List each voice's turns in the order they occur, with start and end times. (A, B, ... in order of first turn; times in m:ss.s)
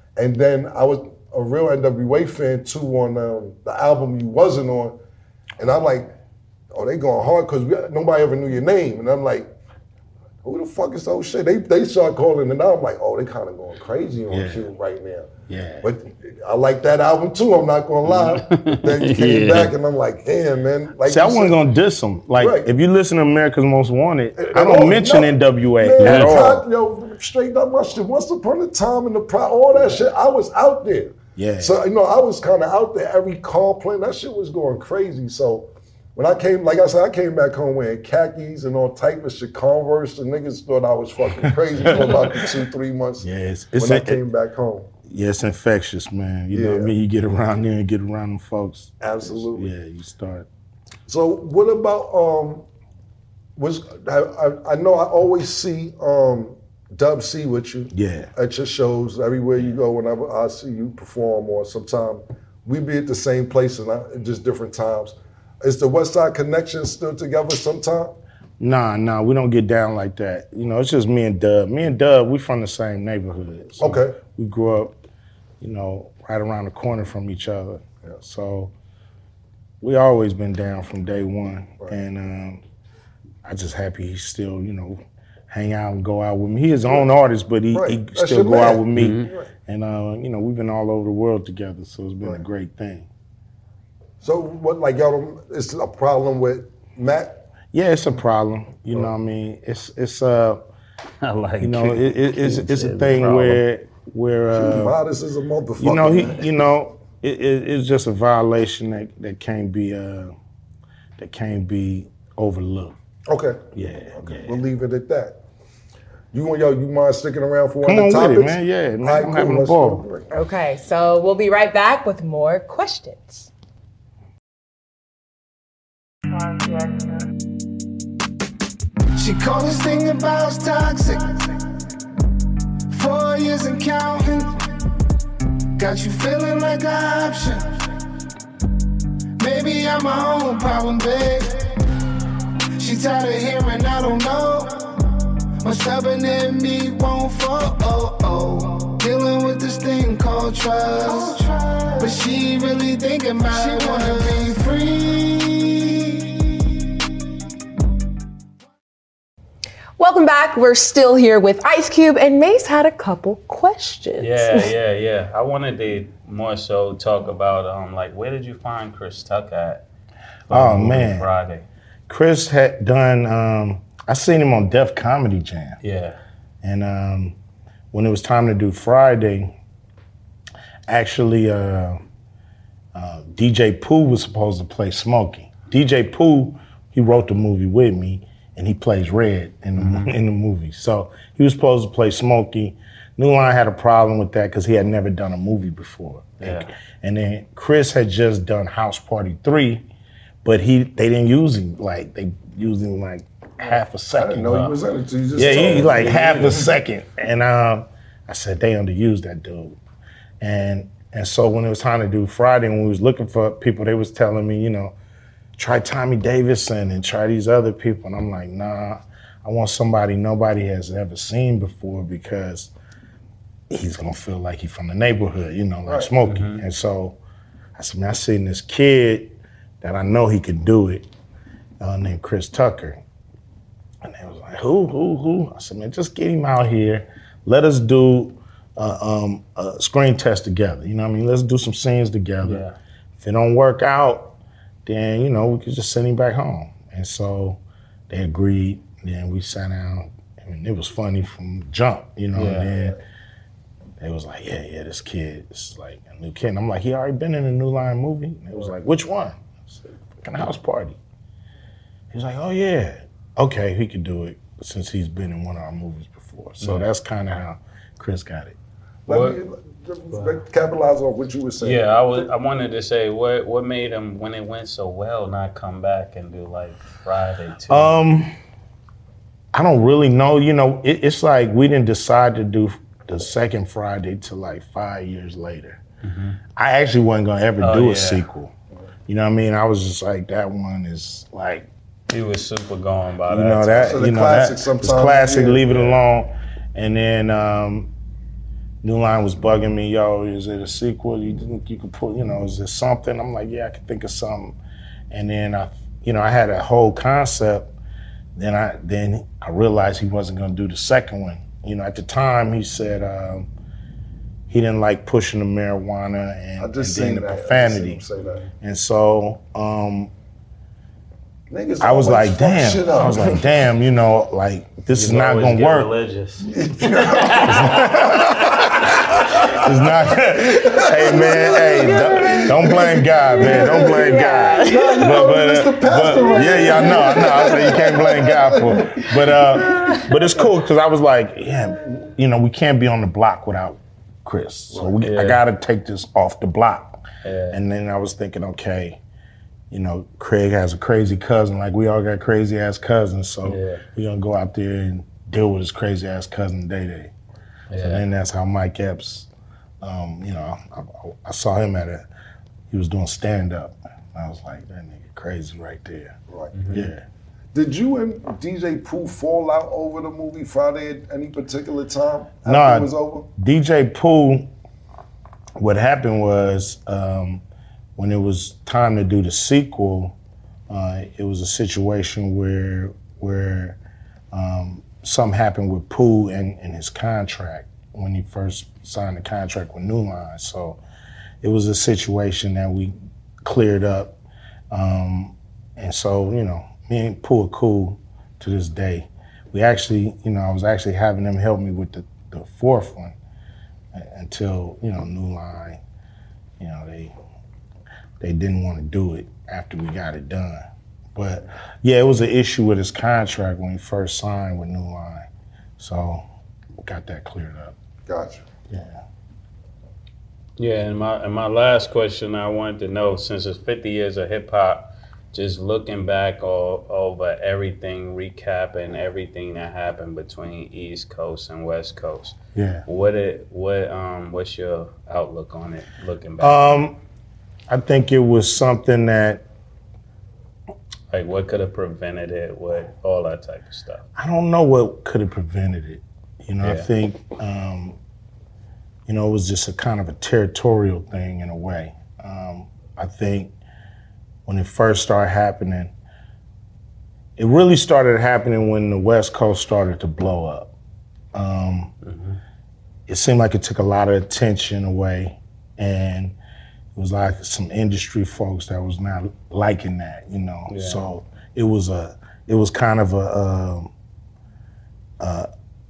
0:00.2-0:05.0 A
0:05.6-0:06.1 A
0:06.7-0:09.5 A
0:10.4-0:15.3 A
0:14.3-0:14.7 B
0:15.5-0:15.9 B
0:15.8-0:21.6 A
0:18.1-0:19.7 C
0:21.0-0:26.6 B
0:22.4-0:22.7 A
0:24.4-0:43.3 A
0:26.0-0:26.4 C
0:31.4-0:31.8 B
0:41.4-0:42.4 B
0:43.2-0:44.2 B
0:43.8-0:44.9 A
0:45.1-0:50.5 B
0:46.5-0:46.9 A
0:49.0-0:49.7 A
0:51.1-0:52.6 A
0:53.6-1:08.1 A
0:57.9-0:58.3 B
1:08.6-1:15.0 B
1:13.8-1:14.2 A
1:15.6-1:18.7 B
1:19.8-1:22.6 B
1:23.4-1:33.1 B
1:27.7-1:29.5 A
1:28.9-1:29.3 C
1:34.2-1:37.4 A
1:37.7-1:40.6 B
1:41.2-1:43.6 C
1:41.6-1:45.0 B
1:44.5-1:46.6 A
1:45.8-1:50.3 B
1:51.2-1:53.0 B
1:53.3-1:53.6 A
1:53.7-1:54.6 B
1:54.2-1:55.4 A
1:56.3-2:00.3 A
1:57.8-2:00.0 B
2:00.3-2:03.5 D
2:09.1-2:11.5 E
2:12.9-2:14.6 E
2:15.8-2:17.8 E
2:19.4-2:21.6 E
2:22.8-2:24.9 E
2:25.6-2:36.3 E
2:40.0-2:44.7 D
2:44.2-2:49.8 C
2:50.5-2:51.3 B
2:50.5-2:51.6 C
2:52.1-2:55.8 B
2:55.8-2:56.2 C
2:56.6-2:57.4 B
2:57.9-2:59.5 B
3:00.9-3:02.0 B
3:02.9-3:19.8 B
3:09.8-3:10.1 C
3:16.4-3:16.7 C
3:20.4-3:24.7 B
3:23.6-3:26.7 A
3:25.3-3:29.8 B
3:25.4-3:26.6 C
3:30.4-3:34.9 B
3:35.6-3:42.7 B
3:43.7-3:47.2 B
3:46.2-3:46.6 C
3:47.8-3:51.1 B
3:51.8-3:53.0 B
3:54.0-4:02.6 B
4:02.4-4:02.7 C
4:03.2-4:13.0 B
4:12.3-4:12.7 C
4:14.0-4:21.0 B
4:22.1-4:28.5 B
4:26.6-4:26.9 C
4:29.1-4:32.3 A
4:29.1-4:29.4 C
4:30.1-4:30.4 C
4:31.6-4:37.9 C
4:37.7-4:38.3 B
4:39.5-4:45.8 B
4:46.0-4:46.4 C
4:46.6-4:48.5 B
4:47.6-4:48.2 C
4:49.1-4:51.7 B
4:52.1-4:54.0 C
4:53.3-4:57.9 B
4:53.8-4:56.0 A
4:58.8-5:04.6 B
5:05.1-5:07.7 B
5:08.4-5:13.5 B
5:14.5-5:18.0 B
5:16.6-5:18.4 A
5:18.6-5:20.1 B
5:21.5-5:23.5 A
5:21.8-5:25.9 B
5:24.9-5:29.6 C
5:26.4-5:40.4 A
5:27.4-5:49.0 B
5:33.9-5:34.9 D
5:44.7-5:45.0 A
5:45.0-5:45.4 C
5:47.2-5:47.6 C
5:49.7-5:57.1 B
5:53.4-5:53.8 C
5:57.7-5:58.0 C
5:57.8-5:59.3 B
5:59.8-6:02.0 B
6:02.7-6:06.1 B
6:06.3-6:06.5 A
6:06.5-6:06.9 C
6:06.7-6:07.0 B
6:07.5-6:13.3 A
6:12.4-6:14.5 B
6:15.6-6:17.4 B
6:18.0-6:20.2 B
6:20.7-6:23.8 B
6:24.3-6:30.8 B
6:31.4-6:34.2 B
6:34.7-6:43.2 B
6:43.9-6:45.8 B
6:46.6-6:47.1 B
6:48.2-6:56.2 B
6:56.8-6:57.7 B
6:58.1-6:58.4 A
6:58.7-6:59.0 B
7:00.6-7:16.8 C
7:12.6-7:12.8 B
7:16.4-7:17.0 B
7:17.7-7:19.4 B
7:21.1-7:24.0 C
7:24.2-7:28.0 B
7:26.6-7:26.9 C
7:29.1-7:33.5 B
7:34.4-7:35.9 B
7:37.4-7:40.7 B
7:41.3-7:41.9 B
7:42.0-7:42.4 C
7:43.1-7:46.4 B
7:46.9-7:53.9 B
7:50.7-7:51.0 C
7:55.2-7:55.5 B